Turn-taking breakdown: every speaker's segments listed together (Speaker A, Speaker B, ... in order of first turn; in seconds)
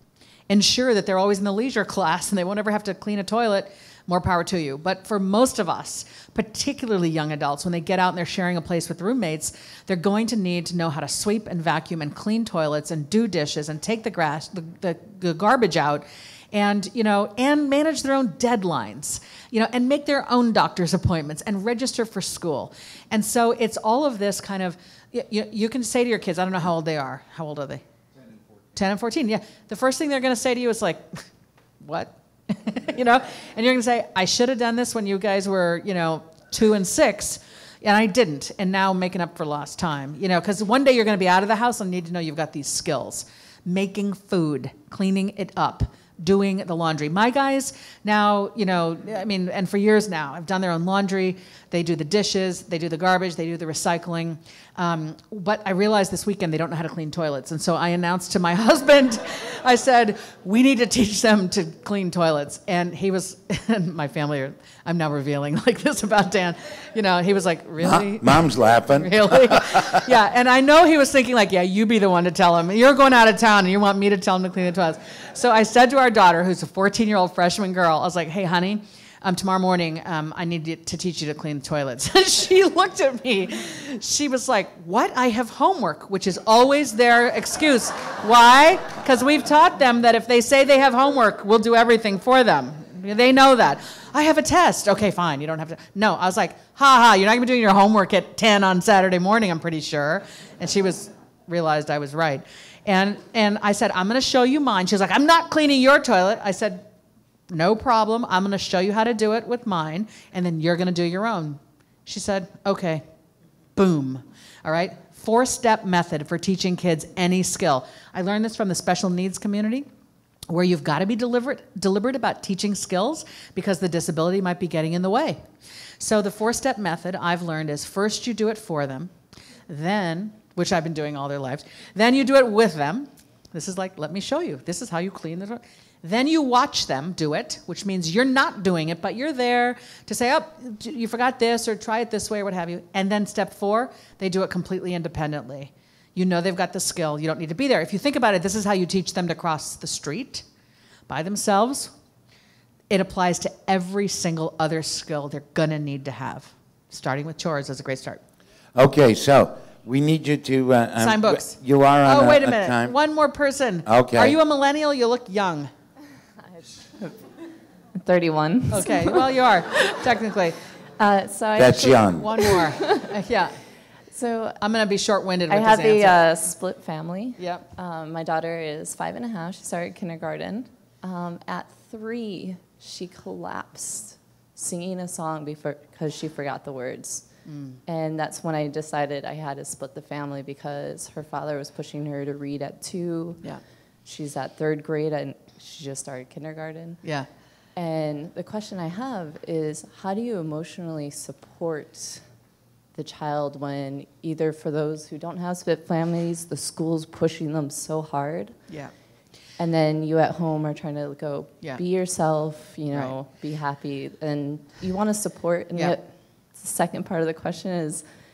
Speaker A: 0.5-27.8, 28.8-31.2, 31.8-106.9, 107.5-113.0, 113.8-119.9, 120.5-125.5, 126.0-129.1, 129.7-150.4, 151.1-151.9, 152.9-158.2, 161.0-165.7, 168.7-170.6, 172.1-173.6, 174.6-176.2, 177.4-177.7, 187.5-187.8, 197.0-197.3, 212.9-213.2
Speaker B: 67.8-70.0, 158.8-163.0, 163.9-164.4, 171.6-172.3
Speaker C: 166.5-167.3, 167.9-169.9, 171.0-173.1, 174.1-174.6, 175.5-187.3, 187.9-193.5, 194.1-197.0, 197.8-202.2, 202.9-208.6, 209.6-218.1